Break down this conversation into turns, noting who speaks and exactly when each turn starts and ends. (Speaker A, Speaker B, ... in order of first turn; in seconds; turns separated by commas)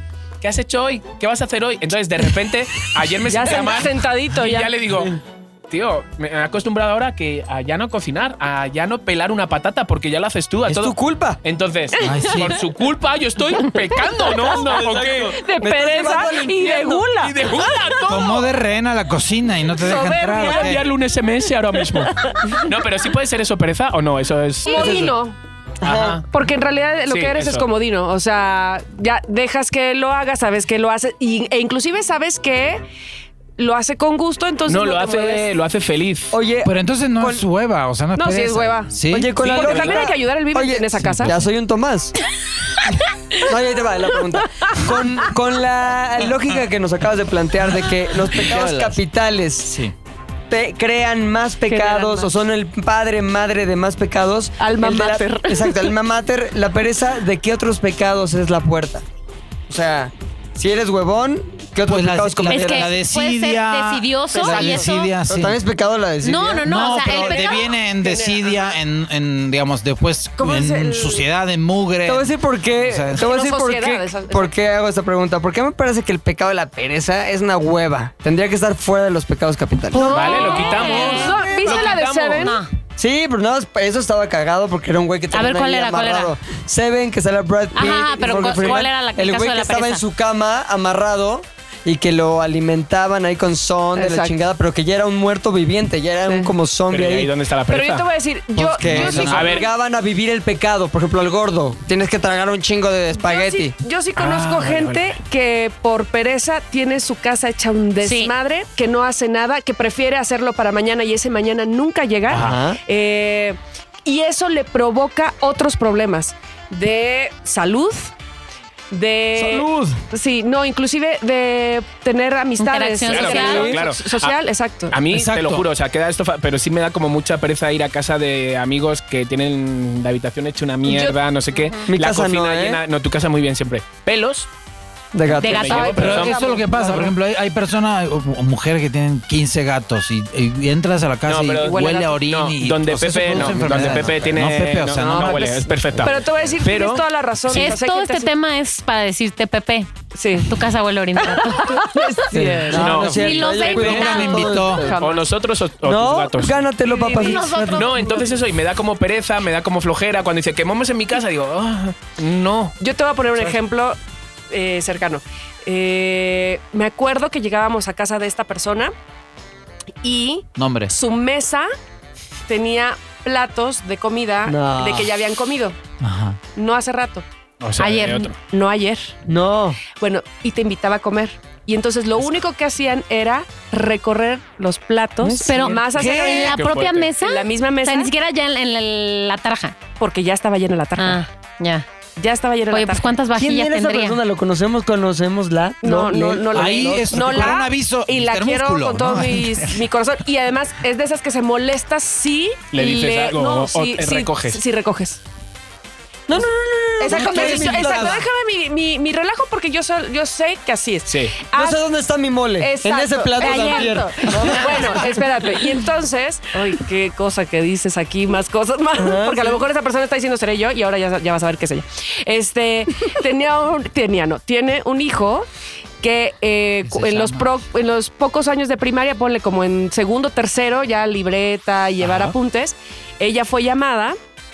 Speaker A: 0.4-15.4, Speaker B: 3.3-4.8, Speaker C: 10.7-11.4, Speaker B: 12.0-12.3, Speaker D: 12.0-12.6, Speaker C: 14.6-17.0, Speaker B: 15.4-18.0, Speaker A: 16.7-18.5, Speaker D: 18.1-20.8, Speaker B: 19.8-20.8, Speaker A: 20.4-25.1, Speaker B: 22.1-22.7, Speaker B: 24.6-25.4, Speaker C: 24.7-25.1, Speaker C: 25.8-26.2, Speaker A: 25.8-26.2, Speaker B: 26.3-32.8, Speaker A: 27.1-27.7, Speaker B: 33.6-35.5, Speaker A: 34.7-36.3, Speaker C: 36.3-37.4, Speaker D: 36.6-39.4, Speaker B: 38.1-41.3, Speaker C: 39.1-42.1, Speaker A: 39.4-40.1, Speaker D: 41.0-41.5, Speaker C: 43.4-49.8, Speaker D: 48.5-48.8, Speaker A: 48.5-48.9, Speaker D: 49.6-49.9, Speaker C: 50.5-59.1, Speaker B: 51.7-52.3, Speaker B: 54.6-55.9, Speaker C: 59.7-62.9, Speaker D: 61.8-65.6, Speaker E: 62.5-65.1, Speaker B: 64.3-64.8, Speaker C: 65.2-67.0, Speaker E: 66.2-67.7, Speaker D: 66.6-73.3, Speaker B: 67.1-68.8, Speaker B: 70.4-71.2, Speaker C: 72.0-81.9, Speaker B: 73.1-74.5, Speaker B: 79.9-82.6, Speaker A: 80.0-82.5, Speaker E: 80.0-81.4, Speaker E: 82.4-82.7, Speaker C: 83.0-97.3, Speaker E: 85.3-86.3, Speaker E: 87.8-90.0, Speaker B: 94.0-94.4, Speaker B: 96.2-96.5, Speaker A: 96.9-98.1, Speaker B: 97.7-99.7, Speaker C: 98.6-103.8, Speaker D: 98.7-99.6, Speaker A: 99.3-99.7, Speaker B: 103.2-118.1, Speaker A: 104.2-105.2, Speaker E: 108.0-108.3, Speaker A: 112.3-112.6, Speaker C: 112.3-112.8, Speaker B: 118.9-125.0, Speaker C: 119.3-120.0, Speaker E: 122.6-123.8, Speaker A: 123.1-124.4, Speaker C: 123.4-123.7, Speaker A: 124.9-134.5, Speaker D: 125.1-125.6, Speaker B: 130.9-131.2, Speaker E: 131.5-131.9, Speaker C: 131.9-132.8, Speaker C: 135.1-136.2, Speaker A: 135.3-136.4, Speaker E: 135.4-136.4, Speaker B: 135.6-137.1, Speaker D: 136.0-146.1, Speaker A: 141.3-147.6, Speaker B: 141.6-142.2, Speaker C: 143.3-144.3, Speaker B: 145.0-148.3, Speaker E: 147.5-152.2, Speaker B: 150.1-150.6, Speaker B: 151.2-152.9, Speaker C: 152.3-155.0, Speaker A: 152.7-153.6, Speaker D: 152.7-154.9, Speaker E: 153.0-154.7, Speaker B: 154.8-155.3, Speaker A: 154.9-156.7, Speaker C: 155.8-158.0, Speaker B: 156.8-157.5, Speaker E: 156.9-158.3, Speaker A: 157.7-162.8, Speaker B: 162.8-164.0, Speaker B: 164.5-168.9, Speaker B: 170.0-171.7, Speaker D: 170.6-170.9, Speaker B: 172.5-175.8, Speaker C: 174.5-175.1, Speaker D: 176.0-176.4, Speaker B: 176.6-177.2, Speaker A: 177.6-178.4, Speaker E: 177.8-178.3, Speaker B: 178.4-179.1, Speaker C: 179.2-179.8, Speaker B: 179.8-186.6, Speaker C: 185.2-185.9, Speaker E: 185.4-189.8, Speaker D: 186.0-186.5, Speaker A: 186.3-187.1, Speaker B: 187.2-188.1, Speaker B: 190.0-191.2, Speaker E: 191.0-191.8, Speaker B: 192.2-193.1, Speaker E: 192.7-194.2, Speaker C: 193.3-197.6, Speaker B: 195.8-205.2, Speaker D: 196.5-199.9, Speaker A: 202.7-204.6, Speaker C: 206.3-208.2, Speaker B: 207.0-211.8, Speaker D: 207.1-208.2, Speaker A: 211.1-211.4, Speaker C: 211.5-215.2, Speaker B: 212.6-225.5, Speaker C: 219.0-219.6, Speaker B: 226.0-234.2, Speaker D: 226.8-227.5, Speaker A: 232.0-232.3